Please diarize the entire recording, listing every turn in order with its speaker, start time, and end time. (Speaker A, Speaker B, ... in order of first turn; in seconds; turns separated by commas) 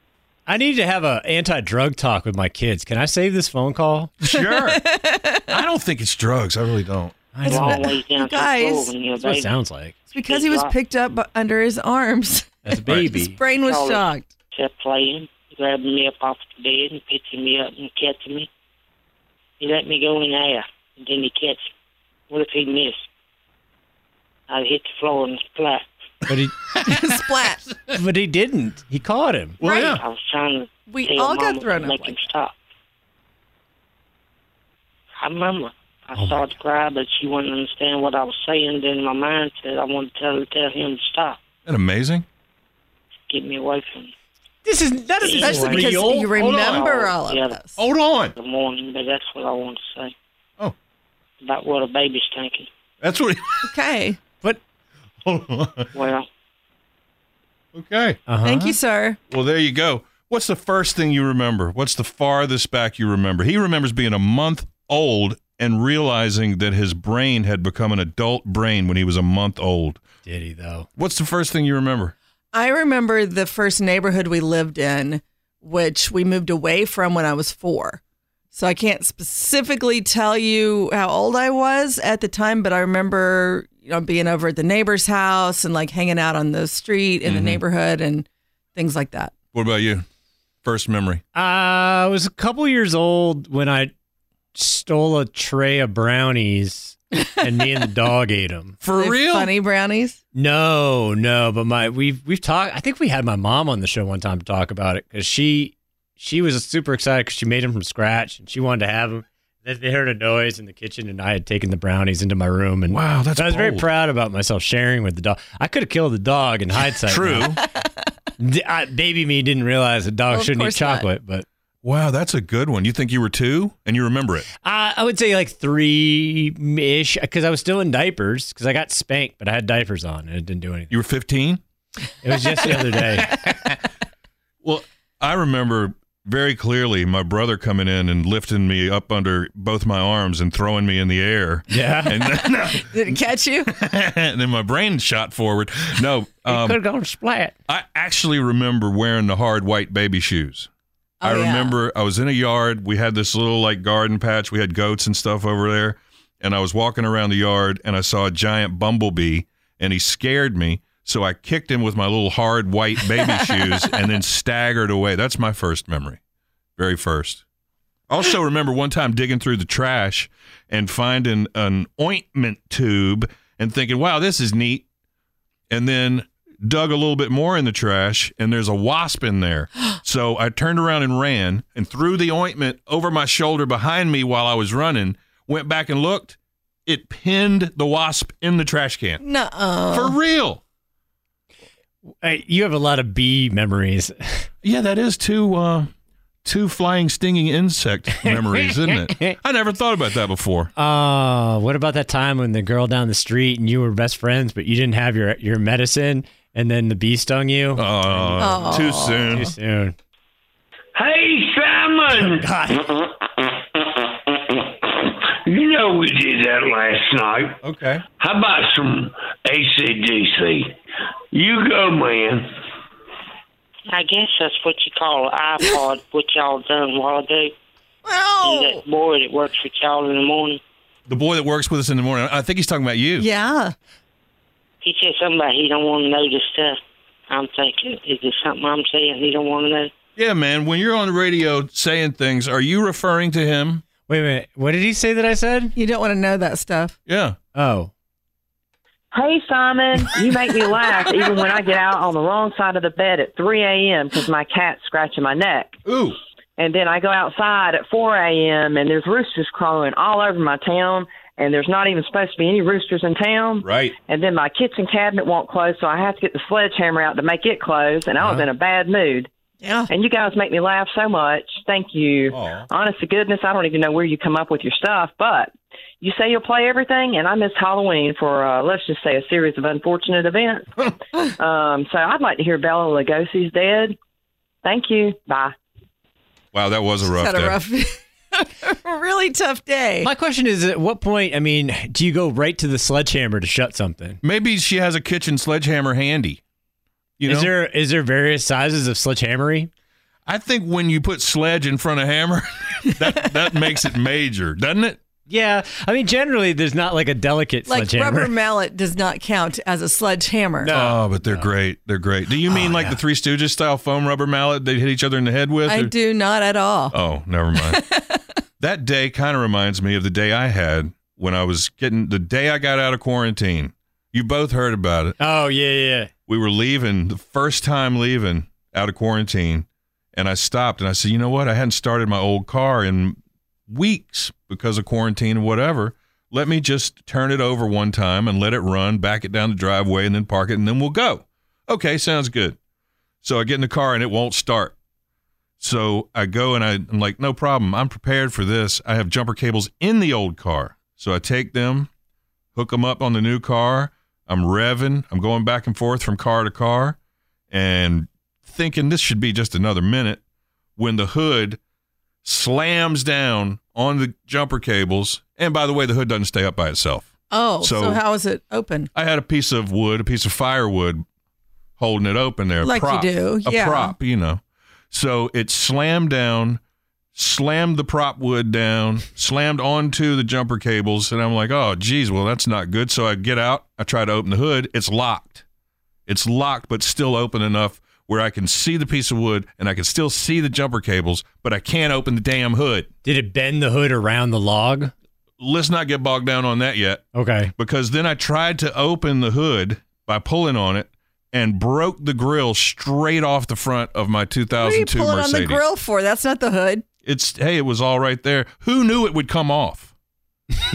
Speaker A: 0.5-4.1, Speaker B: 4.2-4.8, Speaker C: 4.3-5.6, Speaker B: 5.5-7.3, Speaker A: 7.3-7.9, Speaker C: 7.4-8.9, Speaker D: 7.5-9.5, Speaker A: 9.2-10.0, Speaker C: 10.1-14.3, Speaker D: 10.2-10.7, Speaker A: 12.6-13.4, Speaker D: 13.5-18.5, Speaker D: 19.6-21.7, Speaker D: 22.3-23.0, Speaker D: 24.5-25.9, Speaker A: 26.3-26.6, Speaker B: 26.8-27.2, Speaker C: 26.9-27.6, Speaker A: 27.9-29.6, Speaker B: 29.6-30.0, Speaker C: 29.6-30.0, Speaker D: 29.8-32.5, Speaker C: 30.9-32.3, Speaker D: 35.2-41.4, Speaker A: 36.2-36.5, Speaker B: 41.7-42.2, Speaker D: 43.3-44.1, Speaker A: 44.6-46.3, Speaker D: 45.2-45.8, Speaker C: 45.4-47.8, Speaker B: 45.6-46.9, Speaker D: 46.6-47.6, Speaker B: 47.8-48.3, Speaker D: 48.4-50.1, Speaker D: 51.4-52.7, Speaker B: 53.0-53.7, Speaker C: 53.6-54.2, Speaker B: 55.2-55.9, Speaker D: 55.9-56.3, Speaker B: 57.7-58.4, Speaker A: 58.3-58.8, Speaker C: 58.4-59.2, Speaker B: 59.3-70.0, Speaker A: 70.2-70.9, Speaker B: 71.0-72.1, Speaker C: 72.5-78.0, Speaker C: 78.5-89.4, Speaker B: 87.3-87.6, Speaker B: 89.5-90.0, Speaker B: 90.6-91.2, Speaker A: 91.3-93.9, Speaker A: 94.5-98.8, Speaker B: 98.8-99.5, Speaker C: 98.9-100.2, Speaker A: 100.3-117.5, Speaker B: 112.9-113.9, Speaker B: 117.1-117.6, Speaker A: 118.4-121.5, Speaker C: 120.3-121.1, Speaker B: 121.8-124.5, Speaker A: 124.6-130.9, Speaker B: 130.9-131.6, Speaker A: 132.2-133.4, Speaker B: 132.9-133.8, Speaker B: 134.6-146.8, Speaker A: 141.7-142.2, Speaker C: 142.8-143.7, Speaker A: 146.5-147.6, Speaker B: 147.7-150.7, Speaker C: 151.2-151.8, Speaker B: 151.2-166.2, Speaker B: 166.8-167.4, Speaker B: 168.1-174.9, Speaker B: 175.7-189.2, Speaker C: 189.2-190.2, Speaker B: 189.9-190.6, Speaker A: 192.2-194.5, Speaker B: 194.6-195.9, Speaker B: 196.4-200.7, Speaker A: 198.2-199.4, Speaker A: 200.8-210.0, Speaker B: 207.8-209.5, Speaker C: 208.4-209.3, Speaker E: 211.0-213.1, Speaker A: 212.1-212.9, Speaker E: 214.9-217.6, Speaker B: 217.6-218.0, Speaker E: 218.2-220.7, Speaker E: 221.3-222.5, Speaker D: 223.9-227.5, Speaker C: 228.0-228.8, Speaker D: 228.4-230.6, Speaker B: 231.1-233.3, Speaker C: 233.2-233.7, Speaker D: 234.8-239.9, Speaker B: 240.2-243.8, Speaker A: 244.1-245.7, Speaker C: 245.8-247.0, Speaker B: 247.1-247.4, Speaker A: 247.6-247.9, Speaker F: 249.1-255.8, Speaker B: 255.8-256.2, Speaker F: 256.6-269.3, Speaker B: 263.6-263.9, Speaker A: 268.2-268.5, Speaker C: 269.6-269.9, Speaker F: 269.9-280.7, Speaker B: 272.3-272.7, Speaker F: 281.4-284.0, Speaker F: 284.6-285.6, Speaker B: 286.5-287.6, Speaker C: 287.0-290.1, Speaker A: 290.0-294.2, Speaker B: 294.2-296.4, Speaker B: 297.2-297.5, Speaker A: 297.2-299.7, Speaker B: 300.3-305.0, Speaker A: 305.3-308.3, Speaker C: 307.7-310.8, Speaker A: 310.6-311.5, Speaker B: 310.7-315.9, Speaker A: 312.5-313.0, Speaker C: 315.6-317.0, Speaker B: 316.9-317.8, Speaker C: 317.6-318.2, Speaker B: 318.6-325.2, Speaker A: 325.2-326.1, Speaker B: 326.3-342.6, Speaker B: 343.2-344.8, Speaker B: 345.6-351.9, Speaker B: 352.6-357.0, Speaker B: 357.5-360.2, Speaker B: 360.8-361.6, Speaker B: 362.2-368.0, Speaker C: 367.3-368.9, Speaker B: 368.9-371.0, Speaker B: 371.8-376.6, Speaker C: 372.6-374.0, Speaker B: 377.1-385.4, Speaker B: 386.1-392.9, Speaker A: 393.0-394.9, Speaker B: 395.4-397.1, Speaker A: 397.1-397.5, Speaker B: 397.6-405.6, Speaker C: 404.5-406.9, Speaker B: 407.0-409.9